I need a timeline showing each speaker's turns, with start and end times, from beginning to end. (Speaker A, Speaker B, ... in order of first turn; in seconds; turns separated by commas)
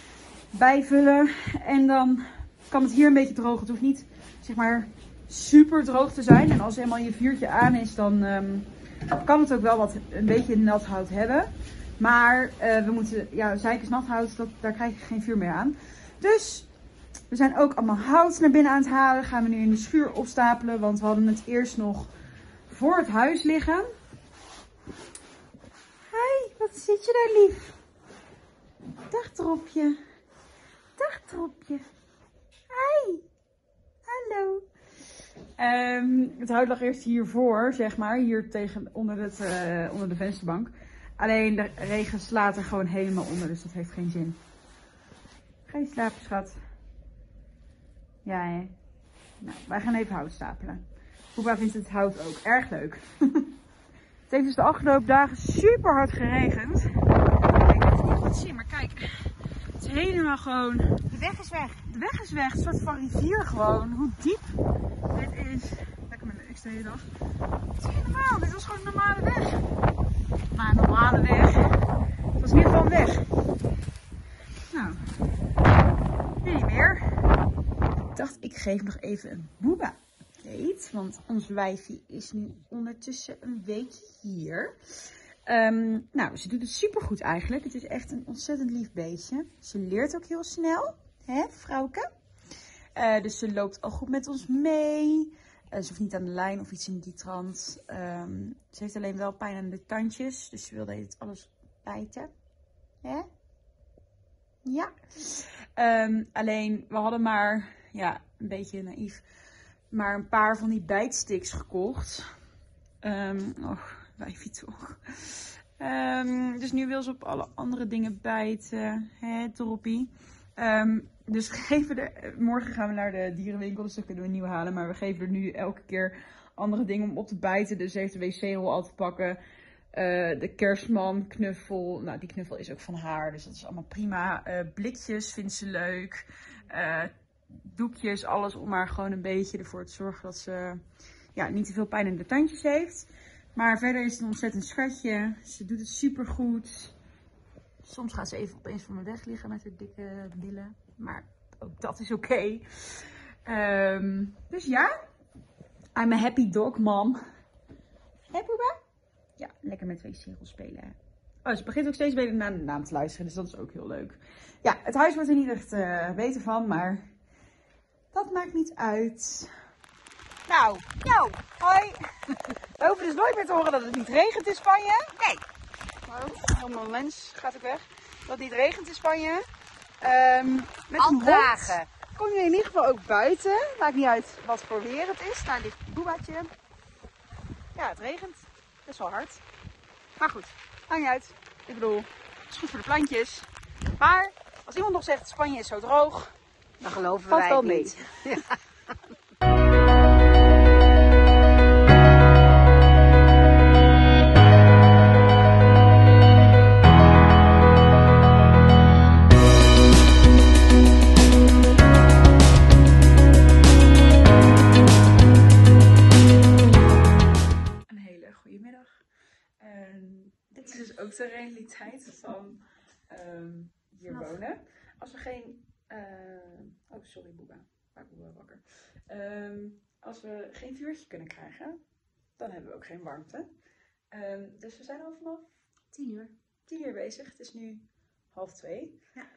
Speaker A: 0.5-16.7, Speaker A: 17.3-22.1, Speaker A: 22.7-23.9, Speaker A: 26.1-27.8, Speaker A: 29.1-30.0, Speaker A: 31.0-31.9, Speaker A: 32.7-33.2, Speaker A: 34.0-34.6, Speaker A: 35.6-44.4, Speaker A: 45.6-46.6, Speaker A: 48.2-48.7, Speaker A: 49.4-53.5, Speaker A: 54.3-61.1, Speaker B: 61.1-61.8, Speaker A: 61.8-64.5, Speaker A: 65.1-67.1, Speaker A: 67.8-69.7, Speaker A: 70.5-71.8, Speaker A: 72.4-73.3, Speaker A: 74.7-75.0, Speaker A: 76.4-77.2, Speaker A: 78.1-92.1, Speaker A: 92.9-102.3, Speaker A: 103.0-103.3, Speaker A: 104.6-109.2, Speaker A: 109.9-112.3, Speaker A: 113.0-129.4, Speaker A: 129.9-140.8, Speaker A: 141.3-146.9, Speaker A: 147.8-154.9, Speaker A: 155.9-157.2, Speaker A: 158.3-158.8, Speaker A: 159.4-167.1, Speaker A: 168.1-169.6, Speaker A: 170.5-175.3, Speaker A: 176.0-179.4, Speaker A: 180.0-186.5, Speaker B: 181.0-181.8, Speaker A: 187.7-189.4, Speaker A: 190.2-196.3, Speaker B: 196.8-198.6, Speaker A: 197.2-198.3, Speaker A: 216.8-217.2, Speaker A: 217.8-219.0, Speaker A: 219.6-231.8, Speaker A: 232.4-233.5, Speaker A: 234.1-235.4, Speaker B: 235.9-236.3, Speaker A: 236.7-239.0